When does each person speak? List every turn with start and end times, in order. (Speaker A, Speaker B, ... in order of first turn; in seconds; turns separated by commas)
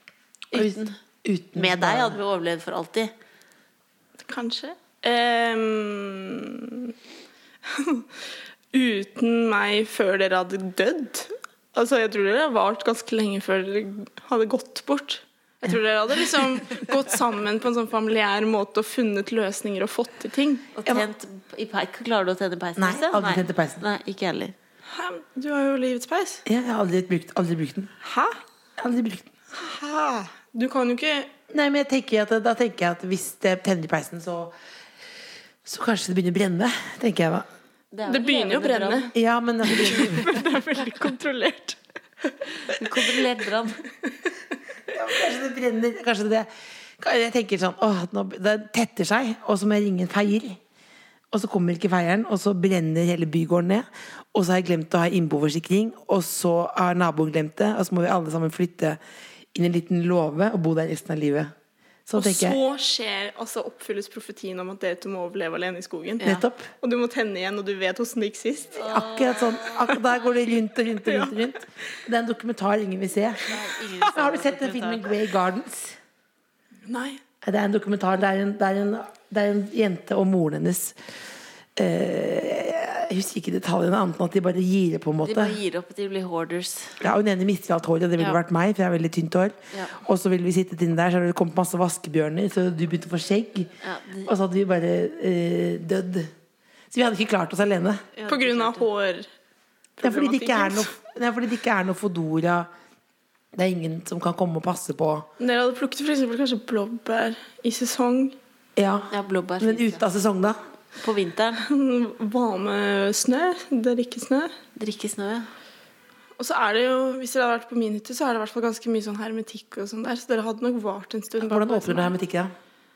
Speaker A: 0.5-1.0, Speaker B: 0.5-2.2, Speaker A: 1.6-3.1, Speaker C: 4.3-6.9, Speaker C: 7.7-8.1, Speaker C: 8.7-20.7, Speaker A: 20.8-24.6, Speaker B: 22.8-23.8, Speaker C: 24.9-26.4, Speaker B: 26.5-27.9, Speaker C: 28.0-28.4, Speaker B: 28.8-29.3, Speaker C: 29.5-31.3, Speaker B: 31.5-34.5, Speaker B: 35.6-37.5, Speaker A: 37.9-39.1, Speaker C: 38.1-39.1, Speaker B: 39.1-40.3, Speaker C: 39.7-41.8, Speaker A: 42.6-43.8, Speaker B: 44.9-46.5, Speaker B: 47.0-50.6, Speaker B: 51.3-59.0, Speaker B: 59.5-61.5, Speaker B: 62.1-62.6, Speaker C: 62.2-68.8, Speaker B: 66.2-66.7, Speaker A: 68.8-70.3, Speaker B: 68.8-76.0, Speaker C: 71.0-71.5, Speaker A: 73.5-75.1, Speaker C: 76.9-77.2, Speaker B: 77.4-81.0, Speaker B: 81.8-85.6, Speaker A: 85.2-87.0, Speaker B: 87.0-93.7, Speaker A: 93.8-94.3, Speaker B: 94.3-96.3, Speaker B: 96.9-98.0, Speaker A: 98.2-98.9, Speaker C: 98.3-99.3, Speaker C: 100.0-100.9, Speaker B: 100.0-102.7, Speaker B: 103.6-105.3, Speaker C: 105.4-108.4, Speaker B: 108.8-110.6, Speaker A: 109.1-110.0, Speaker A: 111.0-111.6, Speaker C: 111.6-114.5, Speaker A: 114.8-115.5, Speaker C: 116.4-122.1, Speaker B: 121.4-122.5